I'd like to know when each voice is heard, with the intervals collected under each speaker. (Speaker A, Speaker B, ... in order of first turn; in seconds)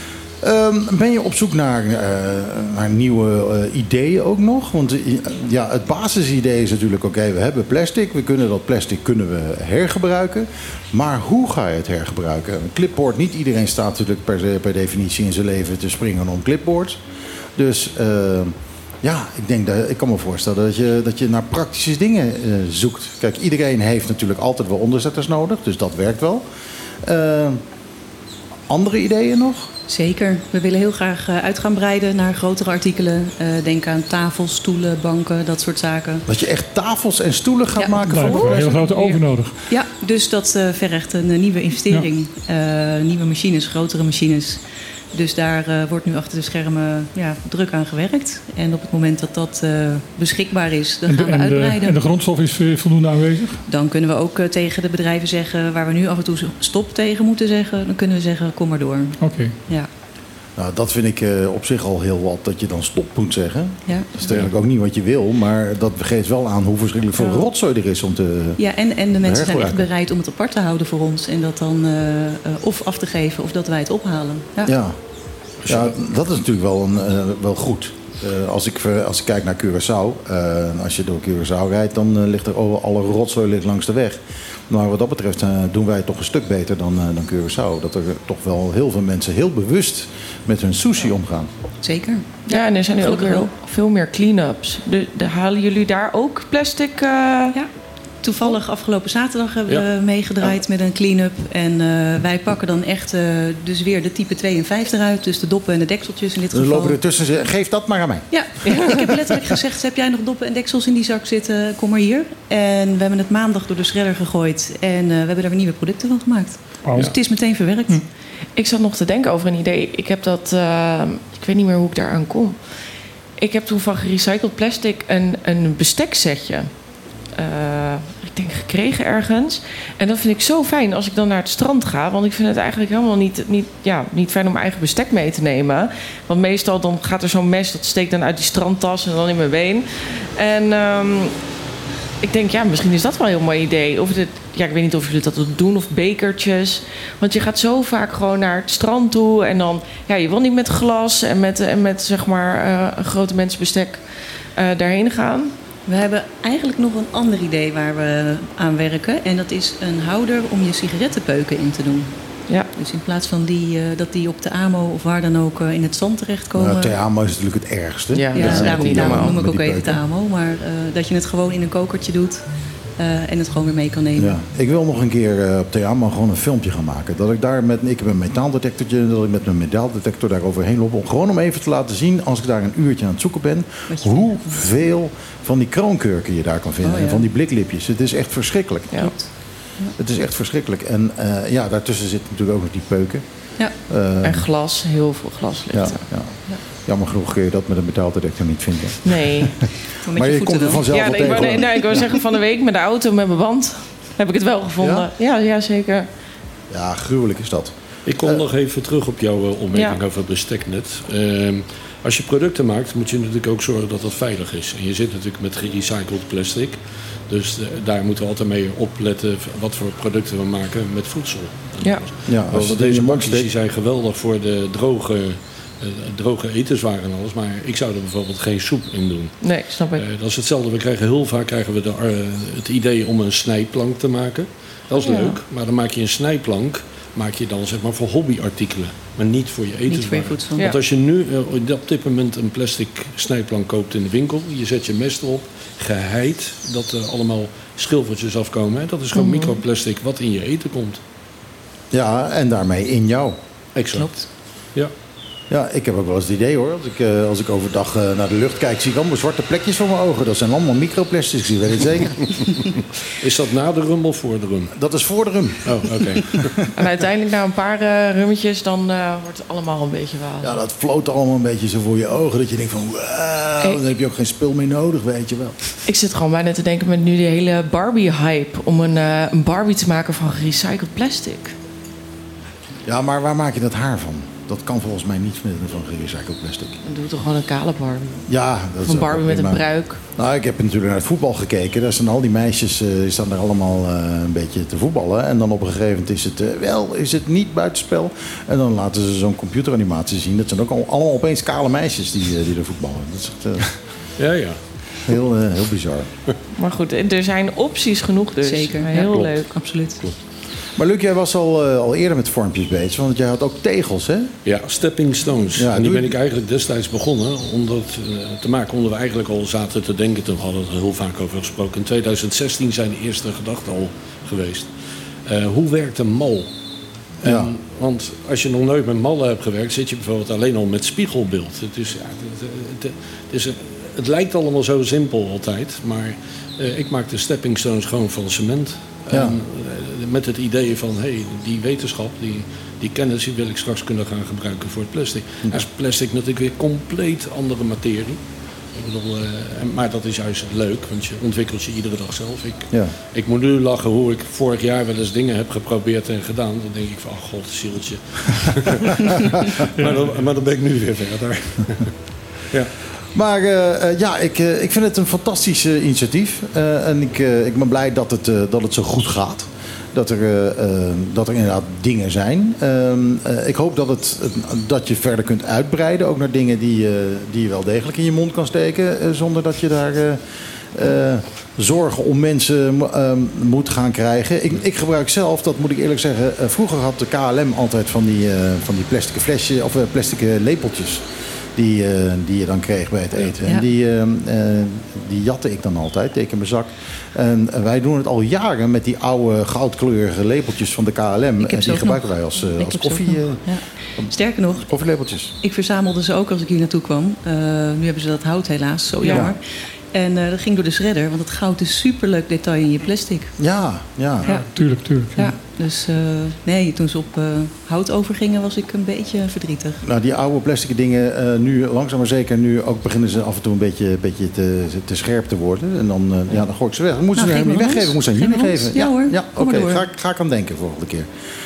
Speaker A: 0.4-17.0, 17.6-26.4, 27.0-27.6, 28.7-29.7, 36.3-38.6, 60.6-68.6, 69.2-69.9, 74.7-75.0, 75.7-91.5, 106.5-108.3, 166.6-170.0, 174.2-189.1, 190.0-193.2, 193.9-194.5, 195.7-196.3, 196.9-199.5, 200.2-202.0, 204.8-205.1, 206.7-208.5, 222.3-223.5, 251.9-253.4, 255.5-262.3, 264.7-266.5, 270.4-275.8, 282.9-286.8, 288.3-303.8, 305.1-306.1, 310.8-314.3, 315.6-316.1, 327.2-327.5, 339.1-339.4, 363.1-380.2, 380.7-391.1, 391.6-403.5, 404.7-405.3, 409.1-409.4, 413.4-414.3, 419.8-431.1
Speaker B: 29.9-36.2, 37.8-38.9, 39.7-52.0, 53.7-59.9, 63.9-64.1, 67.2-67.5, 68.6-74.8, 91.8-92.3, 93.0-93.5, 98.2-107.0, 108.3-118.0, 155.9-162.1, 162.8-167.0, 168.3-172.4, 173.0-174.4, 183.9-184.8, 186.8-187.3, 189.0-189.9, 200.0-202.2, 239.9-240.8, 249.1-249.6, 253.9-254.3, 308.4-310.1, 401.4-404.7, 405.4-413.3, 415.1-419.8, 427.1-429.9
Speaker C: 38.1-39.6, 51.1-53.6, 59.2-59.6, 116.8-117.2, 359.8-360.1, 414.3-415.4
Speaker D: 38.5-39.2, 92.5-97.6, 108.7-109.0, 118.6-122.6, 123.4-126.7, 127.3-141.3, 142.2-154.0, 154.6-155.5, 168.1-169.3, 194.2-196.0, 199.1-199.5, 200.9-206.1, 209.7-210.0, 221.8-222.1, 229.4-230.1, 235.0-235.4, 266.8-270.6, 275.9-281.6, 286.9-288.3, 288.8-290.0, 306.6-309.6, 409.0-409.3
Speaker E: 64.3-64.5, 75.6-76.0, 208.1-229.4, 229.9-251.0, 253.8-254.1, 263.2-264.7, 265.6-266.5, 304.2-304.6, 314.4-324.7, 325.3-326.5, 327.2-348.2, 348.7-361.9